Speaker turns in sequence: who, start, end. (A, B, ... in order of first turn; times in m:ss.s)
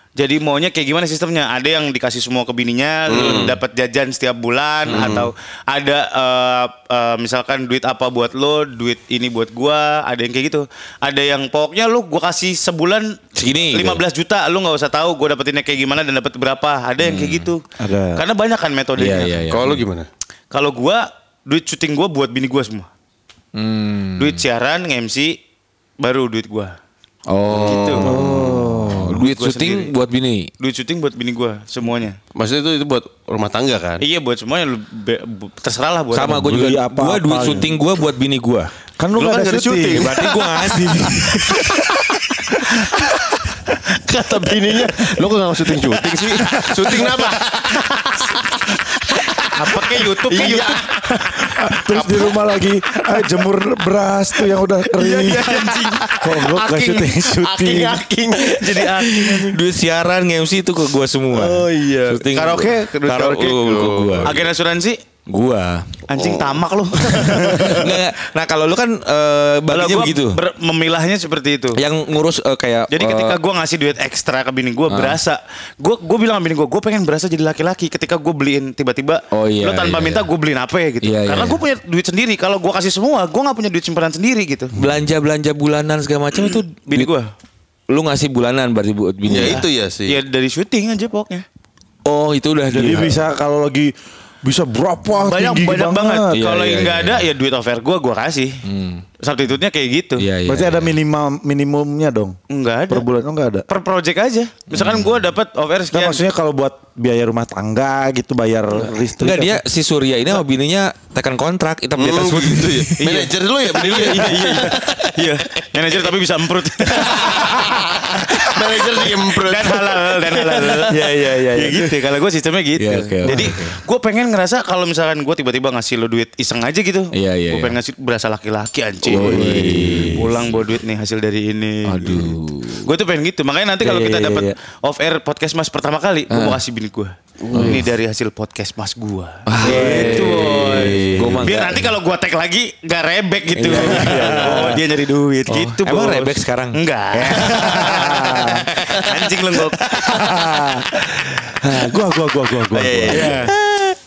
0:00.2-0:17.6 A
0:03.1-0:03.6 B
0:04.9-0:05.3 C
0:04.9-0:05.3 B
0:13.4-0:14.0 C
0:17.0-0:17.5 C
0:17.8-0:18.2 D
0:18.1-0:19.4 A
0:19.0-0:19.9 C
0:19.5-0:20.1 B
0:20.5-0:22.9 A
0:23.6-0:24.4 C
0:24.2-0:25.4 A
0:26.0-0:26.8 A
0:27.3-0:30.5 C
0:27.5-0:27.9 B
0:27.6-0:28.1 A
0:28.0-0:29.2 D
0:29.1-0:29.9 A
0:30.6-0:32.2 A
0:32.3-0:34.0 B
0:34.0-0:36.4 A
0:36.1-0:38.7 C
0:36.3-0:37.8 D
0:39.0-0:40.2 D
0:39.1-0:42.0 B
0:39.9-0:42.0 C
0:44.0-0:48.5 B
0:46.3-0:47.2 D
0:49.2-0:51.0 B
0:49.5-0:50.9 A
0:51.0-0:55.5 D
0:51.9-0:52.7 B
0:54.9-0:58.9 B
0:55.4-0:56.8 A
0:56.2-0:58.0 D
0:58.4-0:59.6 A
0:58.6-1:04.5 C
1:01.3-1:04.5 B
1:04.2-1:05.0 A
1:05.3-1:06.0 C
1:06.1-1:07.7 A
1:06.1-1:08.0 B
1:07.1-1:10.4 C
1:09.7-1:11.8 A
1:11.8-1:13.4 C
1:12.9-1:24.8 A
1:14.9-1:15.2 C
1:19.3-1:20.3 C
1:21.0-1:21.6 C
1:24.7-1:27.1 C
1:26.3-1:27.3 A
1:27.9-1:29.6 C
1:29.3-1:30.2 B
1:29.4-1:31.4 A
1:32.0-1:33.3 C
1:32.7-1:36.4 D
1:35.2-1:38.6 A
1:36.3-1:37.3 C
1:38.6-1:39.0 C
1:39.2-1:40.2 A
1:40.2-1:41.0 C
1:40.5-1:42.4 D
1:42.5-1:43.1 A
1:42.9-1:43.7 D
1:43.7-1:46.2 A
1:44.7-1:45.3 C
1:45.9-1:49.6 D
1:49.0-1:53.3 C
1:52.0-1:55.0 B
1:53.0-1:57.7 A
1:53.9-1:55.0 C
1:57.1-2:00.9 B
1:58.7-2:30.0 A
2:00.9-2:01.9 C
2:02.8-2:03.8 C
2:07.1-2:07.8 C
2:09.1-2:10.6 C
2:09.1-2:10.2 B
2:11.9-2:12.9 C
2:13.8-2:14.6 C
2:16.3-2:16.6 C
2:17.4-2:17.9 B
2:17.5-2:17.8 C
2:19.5-2:21.9 C
2:19.6-2:21.4 B
2:23.5-2:24.8 C
2:24.2-2:24.6 B
2:25.5-2:27.8 C
2:27.5-2:28.7 D
2:29.9-2:33.4 D
2:32.7-2:33.5 B
2:33.1-2:33.5 A